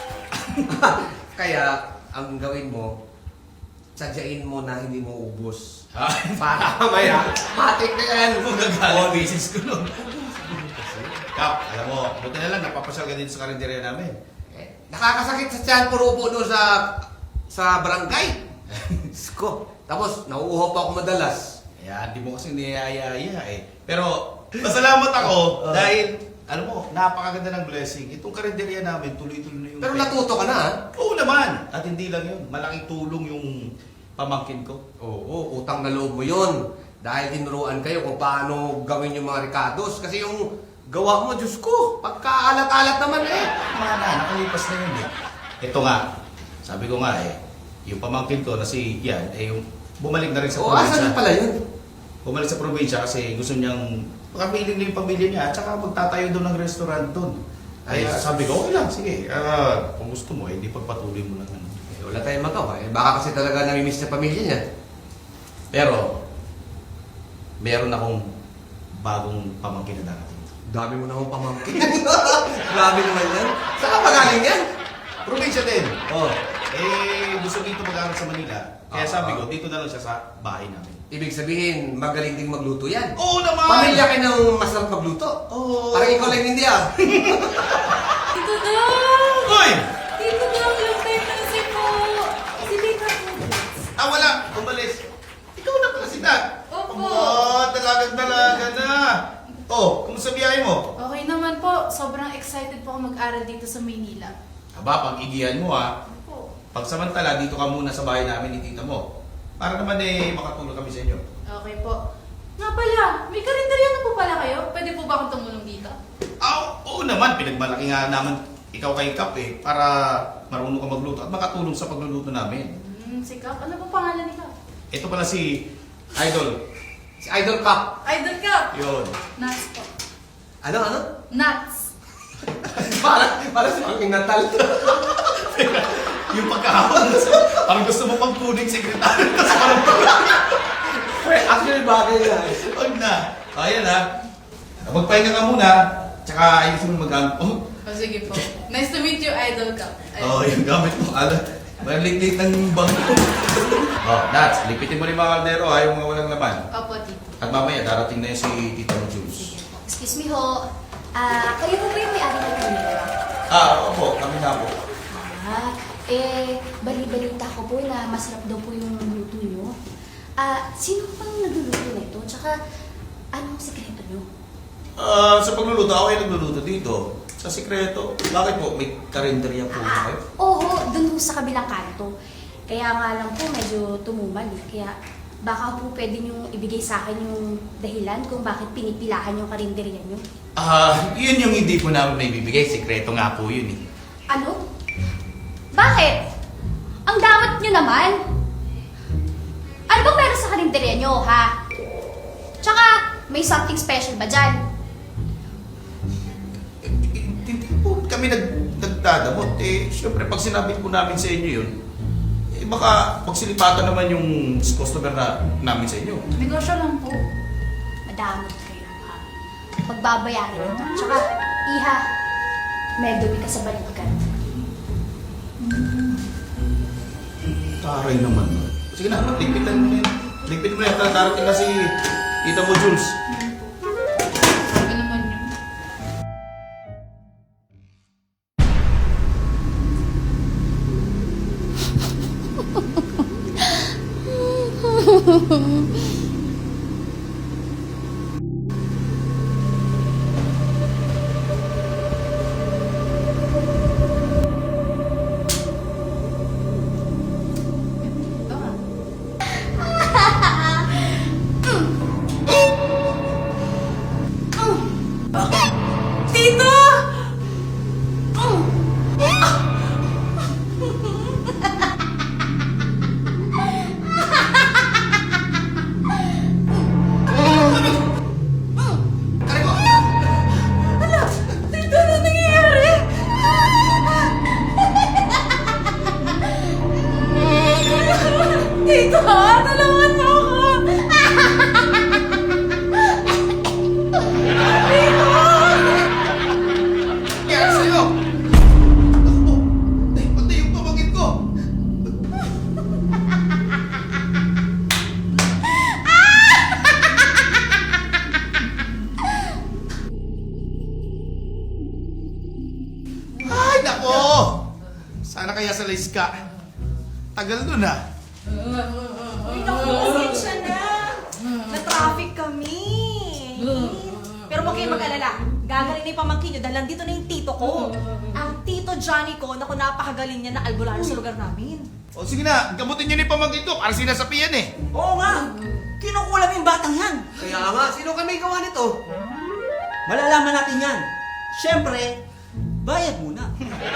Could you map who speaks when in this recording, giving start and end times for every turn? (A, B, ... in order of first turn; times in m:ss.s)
0:00.4-0:00.7 A
0:00.7-0:02.9 B
0:04.0-0:05.7 B
0:05.9-0:06.6 A
0:06.4-0:09.3 B
0:08.4-0:10.1 A
0:10.0-0:11.2 B
0:11.3-0:14.2 A
0:14.5-0:18.4 B
0:18.7-0:19.0 A
0:19.1-0:21.5 B
0:21.8-0:30.4 A
0:29.8-0:30.8 B
0:30.9-0:33.6 A
0:34.2-0:34.8 A
0:35.0-0:43.3 B
0:43.3-0:45.1 A
0:45.6-0:46.0 A
0:46.6-0:51.2 A
0:50.5-0:51.5 B
0:52.2-0:57.3 A
0:57.9-0:58.2 B
0:57.9-1:01.7 A
1:01.9-1:04.6 B
1:05.7-1:06.1 A
1:07.6-1:08.2 A
1:09.0-1:10.5 A
1:10.7-1:14.6 B
1:13.8-1:14.3 A
1:15.2-1:21.0 A
1:19.0-1:19.4 B
1:21.1-1:23.1 B
1:23.2-1:24.1 A
1:23.7-1:25.4 B
1:25.5-1:26.4 A
1:25.9-1:26.9 B
1:27.0-1:28.1 A
1:28.3-1:29.6 C
1:29.4-1:29.8 A
1:30.2-1:33.7 C
1:34.0-1:35.0 A
1:35.5-1:39.2 A
1:36.7-1:37.5 C
1:38.3-1:38.6 C
1:39.7-1:40.8 A
1:41.0-1:44.3 C
1:44.8-1:45.9 A
1:46.1-1:46.5 C
1:46.7-1:49.0 A
1:49.6-1:51.2 A
1:51.5-1:52.0 C
1:52.6-1:56.0 C
1:56.4-2:02.7 A
2:02.8-2:04.5 C
2:04.9-2:06.6 A
2:07.2-2:07.9 B
2:08.0-2:08.7 C
2:08.7-2:09.2 A
2:09.4-2:09.9 C
2:10.6-2:11.0 B
2:11.3-2:11.8 C
2:12.6-2:15.1 B
2:15.2-2:20.5 A
2:21.1-2:22.6 B
2:22.5-2:24.0 A
2:24.8-2:27.6 A
2:27.8-2:30.4 C
2:30.2-2:36.6 A
2:36.7-2:37.3 C
2:37.4-2:39.5 A
2:39.9-2:40.6 D
2:41.2-2:43.1 D
2:43.5-2:44.7 A
2:45.1-2:49.7 D
2:50.4-2:52.5 D
2:53.4-2:54.2 D
2:55.0-3:00.2 A
2:59.7-3:02.1 D
3:02.7-3:04.9 D
3:05.4-3:10.2 D
3:10.6-3:13.8 A
3:14.3-3:14.6 D
3:15.7-3:16.2 D
3:17.1-3:18.2 D
3:19.9-3:21.5 D
3:22.6-3:24.5 D
3:26.8-3:31.7 A
3:32.5-3:36.2 A
3:36.4-3:37.1 C
3:38.1-3:39.2 D
3:39.9-3:42.0 D
3:43.0-3:44.2 D
3:45.7-3:46.1 C
3:47.8-3:51.9 A
3:52.4-3:53.1 A
3:54.7-3:55.5 C
4:18.0-4:18.8 C
4:19.8-4:20.8 D
4:26.3-4:27.0 C
4:37.4-4:38.0 A
4:39.4-4:39.9 A
4:41.7-4:43.0 C
4:48.6-4:51.0 C
4:55.2-4:55.5 C
4:57.4-4:58.1 A
4:59.2-4:59.6 A
5:00.1-5:01.4 A
5:13.4-5:14.5 A
5:15.2-5:16.4 A
5:17.4-5:18.0 A
5:20.0-5:27.9 E
5:28.6-5:31.9 E
5:32.1-5:34.7 A
5:34.9-5:35.5 F
5:36.0-5:37.3 F
5:37.4-5:38.9 B
5:40.1-5:42.1 F
5:42.8-5:43.5 F